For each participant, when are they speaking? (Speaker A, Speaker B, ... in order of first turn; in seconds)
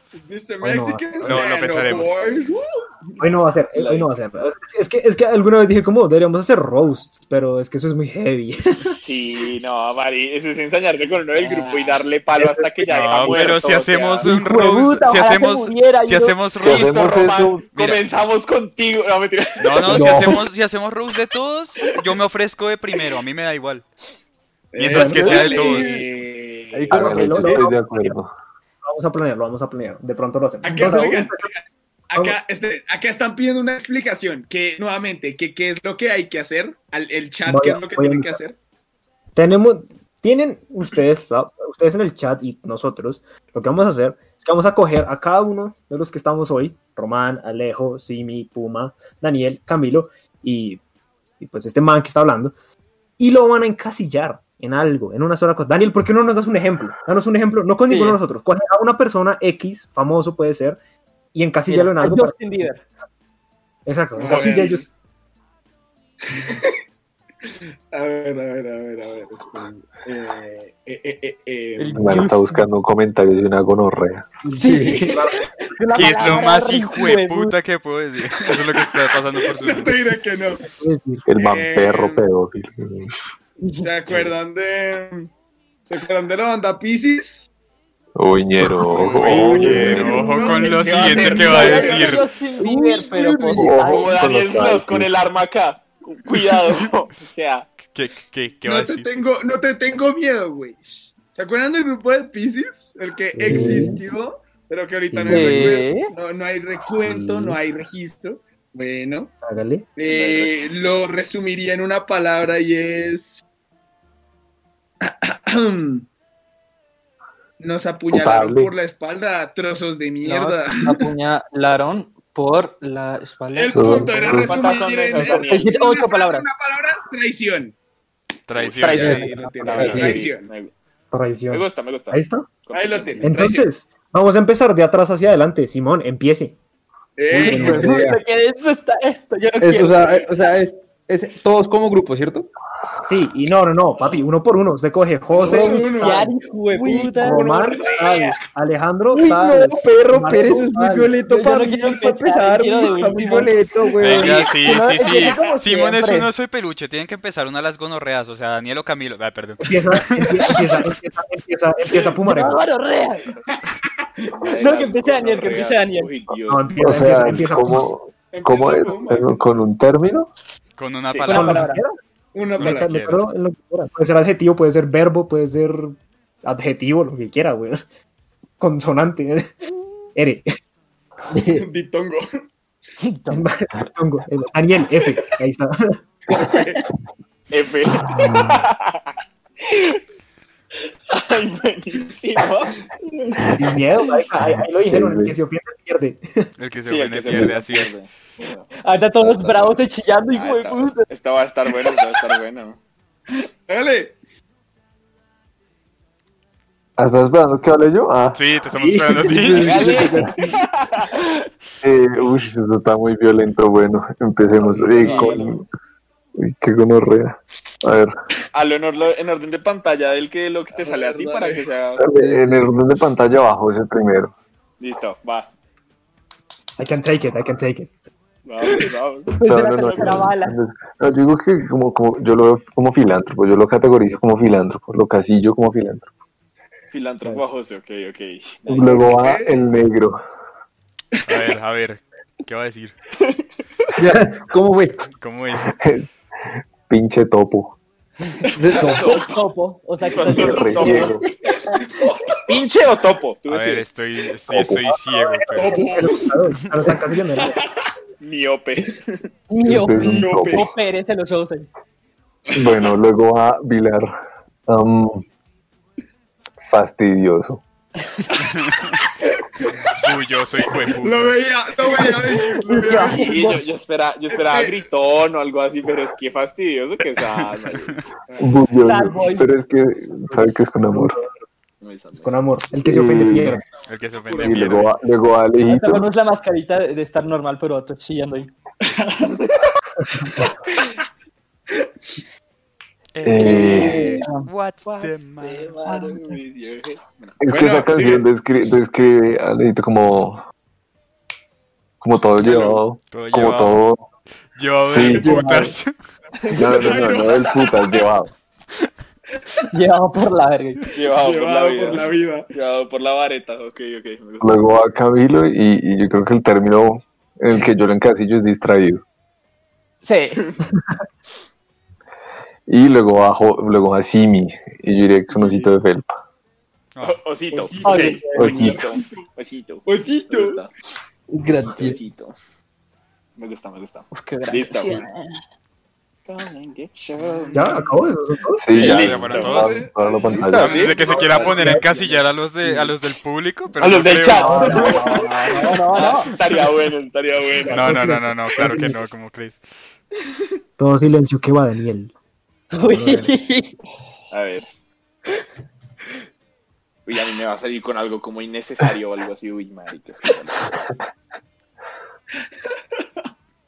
Speaker A: 0.2-3.2, 24.7-27.1, 30.6-38.6, 64.2-64.8, 66.3-66.8, 67.9-72.1, 78.6-80.7, 81.4-82.2, 83.8-85.3, 85.9-87.5, 88.9-92.3, 98.6-109.3, 110.0-113.4, 115.0-116.1, 117.6-121.0, 123.5-127.8, 128.8-130.5, 132.7-133.7, 137.2-137.9, 145.3-146.3, 146.9-147.1, 147.8-148.1, 155.0-155.6, 163.5-164.5, 168.3-169.6, 172.3-172.9, 181.6-182.4, 186.4-186.8, 203.7-204.2, 215.0-215.4, 220.7-221.7, 238.9-239.6, 250.6-252.6, 255.5-256.3, 257.4-257.7, 259.9-260.7, 269.6-270.0, 270.9-273.6, 274.3-274.8, 278.3-278.8, 284.2-284.8, 288.8-289.5, 297.4-298.3, 302.4-302.8, 306.5-308.0, 311.1-312.5, 327.5-329.3, 329.9-330.6, 339.0-342.0
Speaker B: 0.6-1.4, 3.2-9.3, 12.4-13.4, 24.9-25.2, 26.9-28.2, 28.8-31.5, 37.5-38.4, 39.4-50.8, 51.4-52.5, 53.2-60.8, 61.3-62.5, 63.9-64.8, 74.5-75.4, 80.7-81.3, 103.4-104.0, 105.1-105.8, 107.0-107.6, 109.4-109.9, 131.1-132.5, 133.2-136.6, 137.3-138.0, 143.0-146.1, 147.0-151.1, 159.6-162.6, 166.5-167.8, 171.3-172.0, 172.6-177.8, 178.6-179.5, 180.2-180.6, 183.3-186.0, 193.6-196.5, 208.8-209.1, 226.8-227.9, 255.6-257.6, 280.9-281.3, 282.1-283.6, 337.5-338.7, 344.4-344.9, 347.7-349.0, 350.8-352.1, 352.9-353.3
Speaker C: 1.2-2.3, 12.9-18.0, 19.6-23.9, 24.8-26.0, 75.9-80.0, 88.9-92.3, 97.8-99.1, 128.5-129.2, 154.0-160.6, 170.8-171.7, 172.6-173.2, 196.6-198.0, 208.3-209.8, 241.3-242.9, 245.2-245.8, 253.5-255.8, 268.4-269.0, 270.0-271.4, 277.4-278.0, 283.9-284.9, 293.1-295.8, 303.1-303.8, 304.6-305.9, 338.7-339.8, 340.6-345.0, 347.7-349.6
Speaker D: 3.8-4.1, 9.0-14.3, 16.6-20.3, 93.9-97.8, 110.0-110.7, 124.4-125.7, 128.6-130.7, 131.5-133.5, 164.4-167.4, 187.5-190.0, 191.1-193.4, 196.8-198.7, 199.2-199.8, 200.3-202.8, 209.5-211.5, 214.8-215.5, 218.5-222.1, 224.8-225.5, 228.4-229.3, 236.9-239.1, 243.2-243.9, 248.7-249.4, 250.1-251.2, 252.5-253.8, 258.2-259.2, 272.9-278.0, 281.8-282.4, 294.9-297.4, 306.4-307.0, 310.9-314.6, 327.0-330.7, 331.6-332.4, 333.4-335.1, 336.3-337.9, 338.7-339.7, 340.4-341.8, 343.8-348.1, 354.3-354.6, 357.1-360.7
Speaker E: 14.3-16.5, 57.9-58.2, 61.7-62.9, 71.8-72.6, 74.5-77.5, 83.6-83.9, 89.8-94.2, 105.3-106.1, 120.2-124.3, 125.2-126.5, 128.8-130.2, 137.4-140.3, 145.4-147.7, 151.2-156.3, 162.2-163.3, 164.6-166.1, 171.2-171.8, 183.0-183.5, 198.8-201.1, 229.3-230.6, 249.0-251.2, 259.5-261.7, 272.5-273.6, 278.8-279.5, 285.6-288.5, 293.4-294.5, 295.9-296.3, 309.7-310.8, 320.0-320.5, 327.8-328.4, 334.1-335.3, 344.4-346.3, 352.7-353.8
Speaker F: 16.6-17.7, 26.9-28.3, 72.0-74.3, 81.3-83.2, 88.2-90.2, 93.5-95.2, 118.1-118.7, 123.7-124.6, 166.8-170.3, 188.1-188.6, 194.4-195.4, 197.3-197.5, 207.0-208.4, 211.8-215.7, 216.4-218.1, 222.0-224.3, 229.4-236.1, 238.7-240.2, 245.7-246.1, 246.9-247.8, 250.2-251.2, 254.5-255.0, 259.6-260.7, 262.5-264.1, 264.7-265.2, 266.6-267.6, 278.4-281.2, 282.8-283.6, 284.4-286.1, 293.2-294.2, 297.4-300.4, 302.0-304.1, 304.8-305.5, 306.5-308.3, 314.4-319.0, 322.7-326.1, 328.3-328.8, 338.6-340.9
Speaker G: 19.9-20.4, 26.8-27.6, 74.5-75.2, 92.6-93.8, 103.5-103.9, 129.0-130.2, 137.3-138.2, 139.6-142.5, 145.4-147.6, 149.1-154.5, 181.3-181.7, 209.2-210.6, 215.0-215.4, 222.1-222.7, 244.0-245.0, 248.5-249.1, 305.1-305.8, 331.3-332.0, 341.5-341.8